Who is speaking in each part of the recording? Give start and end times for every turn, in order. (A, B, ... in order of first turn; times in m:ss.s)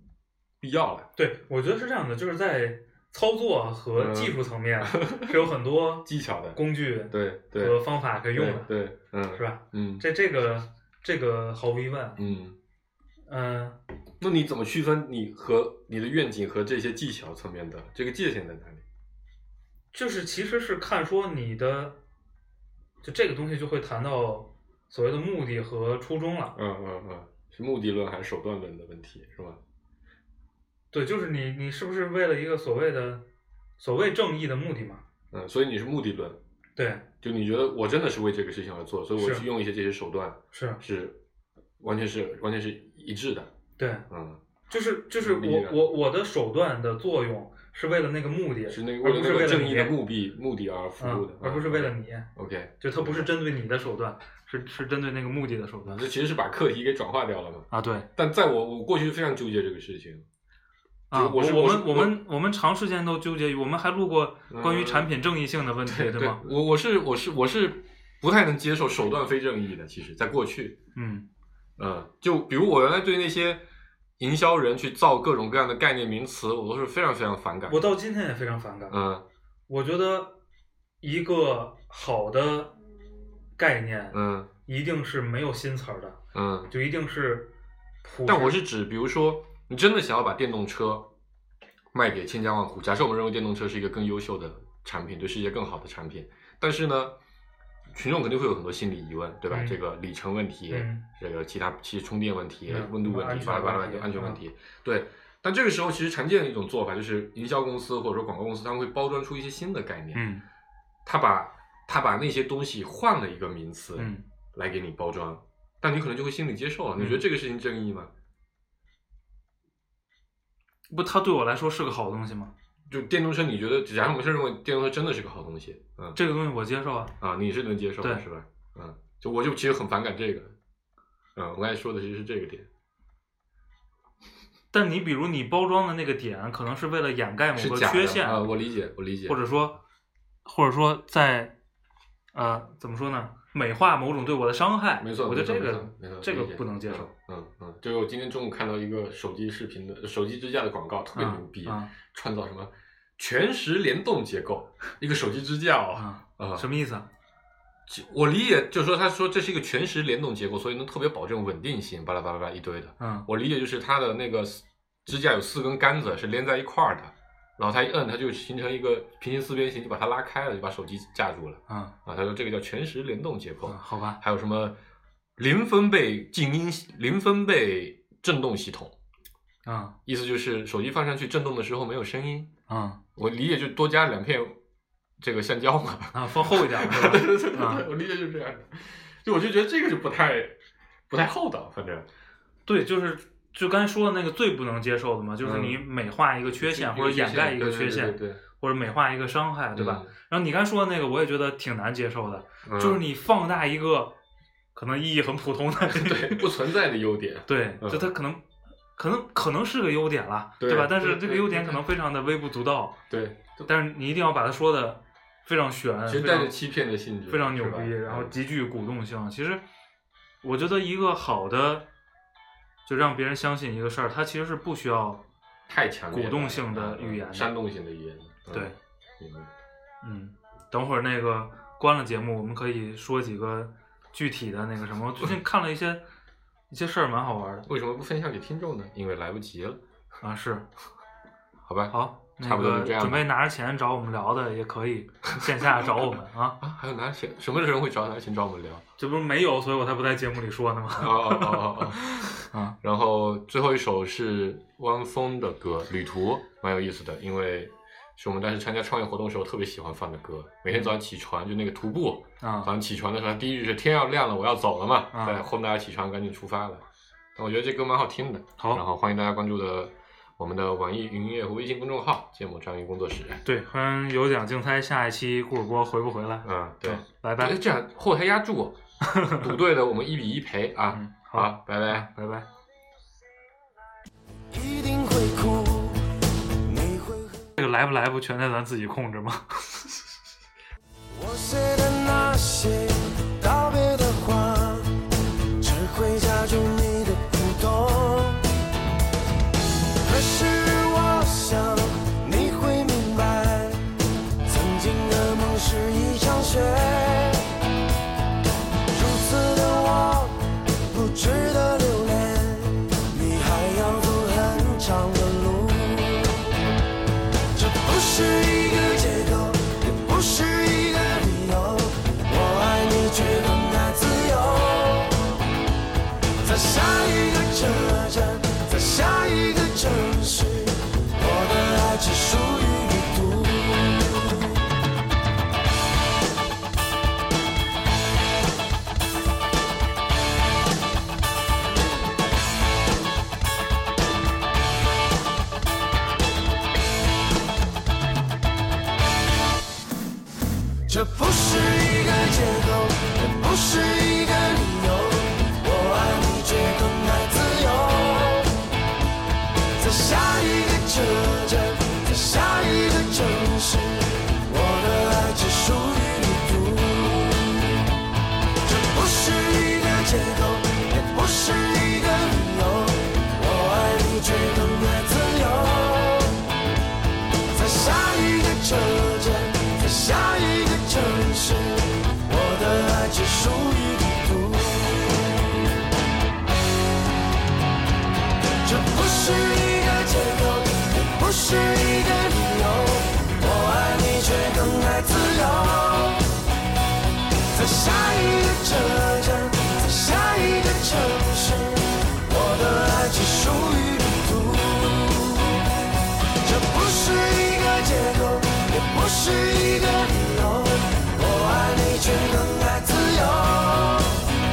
0:00.6-0:01.1 A
0:01.2-0:08.7 B
0:04.0-0:05.4 A
0:06.0-0:06.6 A
0:07.1-0:07.8 A
0:08.3-0:10.0 A
0:09.3-0:12.2 B
0:12.2-0:12.6 A
0:13.3-0:13.8 B
0:14.2-0:18.8 A
0:19.9-0:22.0 B
0:23.0-0:26.6 B
0:26.5-0:29.6 A
0:30.9-0:33.2 B
0:33.8-0:35.0 B
0:35.3-0:36.4 A
0:36.8-0:37.0 B
0:37.2-0:41.2 A
0:39.2-0:39.4 B
0:40.5-0:40.8 B
0:41.8-0:43.5 A
0:43.8-0:44.0 B
0:44.1-0:44.4 A
0:44.7-0:49.9 B
0:45.2-0:45.8 A
0:48.7-0:53.3 A
0:51.0-0:52.3 B
0:52.8-0:56.0 B
0:55.8-1:00.2 A
0:57.7-0:58.1 B
1:01.1-1:06.4 B
1:01.1-1:02.1 A
1:04.5-1:05.1 A
1:05.8-1:10.8 A
1:11.0-1:11.2 B
1:11.8-1:13.6 A
1:14.2-1:17.9 A
1:17.7-1:19.0 B
1:18.9-1:19.2 A
1:19.7-1:20.4 B
1:21.0-1:22.7 B
1:23.6-1:27.5 B
1:24.1-1:24.5 A
1:26.3-1:26.7 A
1:28.0-1:28.6 B
1:28.2-1:31.1 A
1:31.9-1:37.2 A
1:37.9-1:50.2 A
1:39.5-1:39.8 B
1:40.7-1:41.0 B
1:42.7-1:44.4 B
1:50.1-1:50.4 B
1:51.0-1:58.1 A
1:54.0-1:54.2 B
1:57.0-1:57.2 B
2:00.9-2:02.5 B
2:02.9-2:06.2 A
2:06.1-2:07.1 B
2:07.2-2:10.6 A
2:11.4-2:12.7 A
2:14.7-2:18.5 B
2:17.5-2:19.4 A
2:19.3-2:19.8 B
2:20.4-2:21.5 B
2:22.3-2:27.1 B
2:25.0-2:36.6 A
2:31.1-2:31.9 B
2:36.0-2:37.1 B
2:37.9-2:54.8 A
2:43.0-2:43.3 B
2:51.7-2:51.9 B
2:53.7-2:54.2 B
2:55.4-2:58.9 A
2:59.6-3:00.0 B
3:00.0-3:02.5 A
3:02.7-3:03.0 B
3:03.2-3:04.6 A
3:05.2-3:10.6 A
3:06.1-3:07.8 B
3:11.1-3:12.1 A
3:12.6-3:24.2 B
3:15.4-3:15.8 A
3:16.5-3:18.4 A
3:19.7-3:20.1 A
3:22.6-3:23.0 A
3:24.7-3:26.5 B
3:25.9-3:28.1 A
3:27.5-3:28.4 B
3:29.0-3:33.0 B
3:30.6-3:31.8 A
3:33.1-3:33.7 A
3:33.7-3:36.5 B
3:36.1-3:38.3 A
3:37.3-3:39.6 B
3:40.4-3:41.9 B
3:42.8-3:45.2 B
3:45.7-3:49.5 A
3:46.1-3:47.5 B
3:48.5-3:48.8 B
3:50.0-3:56.0 B
3:56.7-3:57.7 B
3:57.6-3:59.8 A
4:00.2-4:00.6 B
4:01.6-4:03.2 A
4:01.9-4:06.6 B
4:05.3-4:06.0 A
4:06.6-4:08.8 A
4:09.0-4:12.8 B
4:11.0-4:12.0 A
4:12.8-4:33.4 A
4:22.4-4:22.7 B
4:25.1-4:25.5 B
4:33.4-4:37.6 B
4:36.4-4:38.8 A
4:39.0-4:39.5 B
4:39.3-4:42.1 A
4:40.9-4:42.5 B
4:44.5-4:46.0 C
4:46.6-4:47.6 C
4:47.6-4:49.8 B
4:51.1-4:55.0 C
4:55.6-4:58.6 C
5:00.0-5:03.9 C
5:04.4-5:07.6 C
5:08.9-5:16.5 C
5:17.5-5:25.3 C
5:26.4-5:34.6 C
5:50.9-5:58.6 C
5:59.8-6:07.8 C
6:08.6-6:16.4 C
6:17.5-6:25.3 C
6:28.6-6:36.3 C
6:37.4-6:45.7 C
6:46.4-6:54.2 C